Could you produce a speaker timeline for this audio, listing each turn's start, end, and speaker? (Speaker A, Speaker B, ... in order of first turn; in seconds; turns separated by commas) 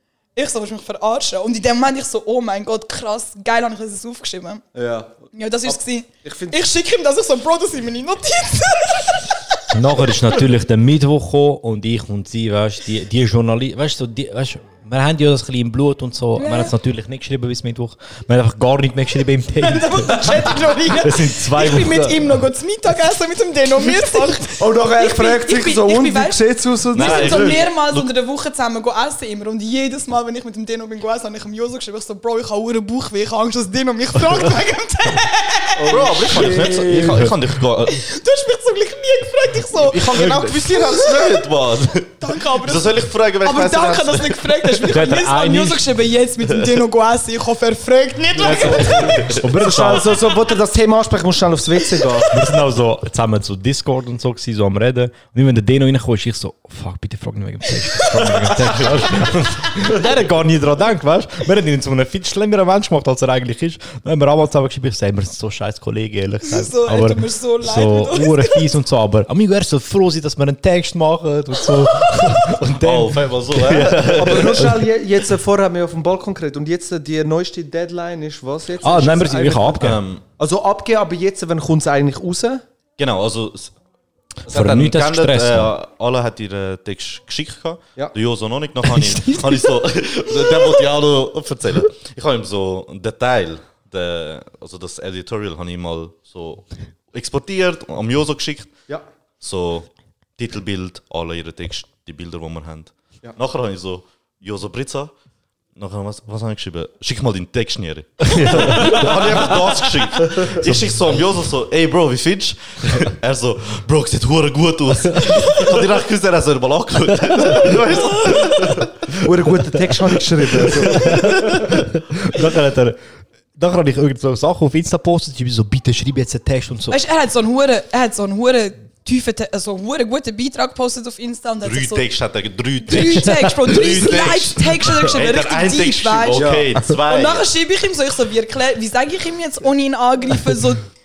Speaker A: 0.3-4.6, Speaker B: 4.7-6.6, Speaker A: 5.3-9.7, Speaker C: 9.7-22.4, Speaker A: 16.4-16.7, Speaker A: 19.6-35.9, Speaker B: 24.5-27.6, Speaker D: 26.9-28.1, Speaker B: 35.8-37.1, Speaker D: 35.9-38.0, Speaker C: 36.4-37.4, Speaker A: 37.8-41.4, Speaker D: 39.7-45.0, Speaker C: 40.0-40.7, Speaker A: 42.2-49.3, Speaker C: 44.9-45.9, Speaker B: 48.4-52.3, Speaker C: 49.3-50.2, Speaker C: 52.3-74.8, Speaker A: 66.4-68.7, Speaker D: 72.8-74.6, Speaker B: 74.1-79.8, Speaker C: 78.8-80.0, Speaker D: 79.8-80.2, Speaker B: 80.4-82.6, Speaker D: 83.0-83.7, Speaker D: 84.4-98.7, Speaker C: 84.5-85.7, Speaker A: 89.2-89.6, Speaker A: 90.5-90.8, Speaker D: 99.4-105.1, Speaker D: 105.8-119.2, Speaker C: 108.3-109.6, Speaker C: 115.2-115.6, Speaker B: 119.2-121.1, Speaker C: 120.9-123.0, Speaker D: 121.0-121.7, Speaker C: 123.5-127.0, Speaker A: 126.9-132.0, Speaker D: 131.6-137.5, Speaker A: 132.8-140.8, Speaker B: 136.3-136.7